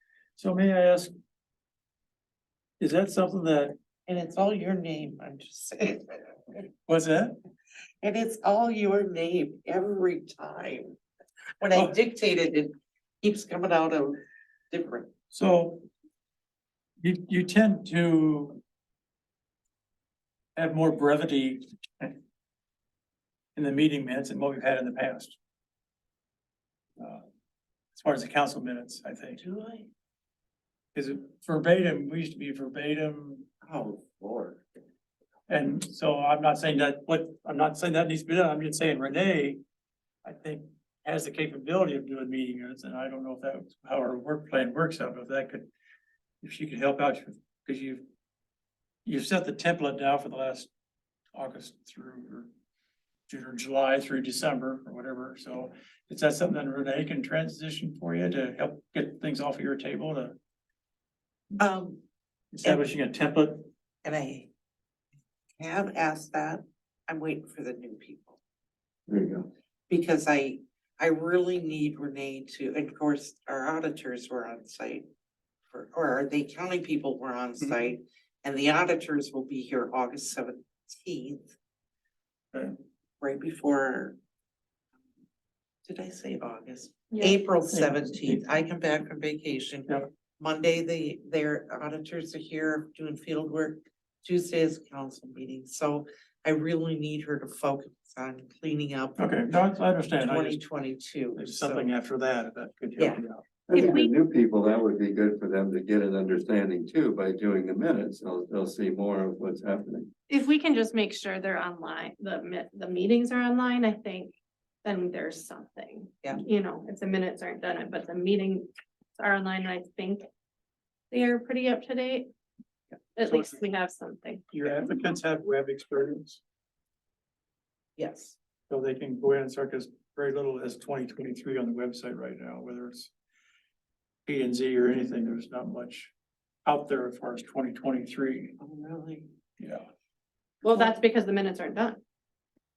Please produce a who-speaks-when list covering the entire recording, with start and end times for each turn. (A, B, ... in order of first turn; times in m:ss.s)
0:00.4-0:01.1 A
0:02.8-0:03.7 A
0:04.1-0:06.6 B
0:06.9-0:07.4 A
0:08.0-0:11.0 B
0:11.6-0:14.2 B
0:14.7-0:15.1 B
0:15.3-0:15.9 A
0:17.0-0:18.6 A
0:20.6-0:22.1 A
0:23.6-0:25.4 A
0:27.0-0:27.2 A
0:27.9-0:29.4 A
0:29.4-0:29.9 B
0:30.9-0:33.5 A
0:33.6-0:34.6 B
0:35.5-0:39.6 A
0:40.2-0:45.7 A
0:46.4-0:48.0 A
0:49.0-0:50.7 A
0:51.3-0:52.5 A
0:53.3-1:00.4 A
1:01.6-1:02.0 B
1:02.5-1:03.7 A
1:04.0-1:04.5 B
1:05.6-1:08.4 B
1:09.1-1:09.5 C
1:09.9-1:15.0 B
1:15.7-1:21.6 B
1:23.2-1:24.2 B
1:25.8-1:39.5 B
1:27.1-1:27.4 D
1:27.7-1:28.4 A
1:39.2-1:40.6 A
1:40.2-1:41.9 B
1:41.4-1:43.4 A
1:43.0-1:43.2 B
1:43.7-1:50.1 C
1:43.7-1:44.1 D
1:50.3-2:00.2 D
2:01.1-2:02.3 D
2:03.2-2:04.4 D
2:04.5-2:06.4 A
2:08.0-2:08.4 B
2:08.7-2:13.1 A
2:14.2-2:16.1 A
2:16.6-2:18.6 A
2:18.6-2:19.3 B
2:19.6-2:19.9 A
2:20.6-2:22.0 D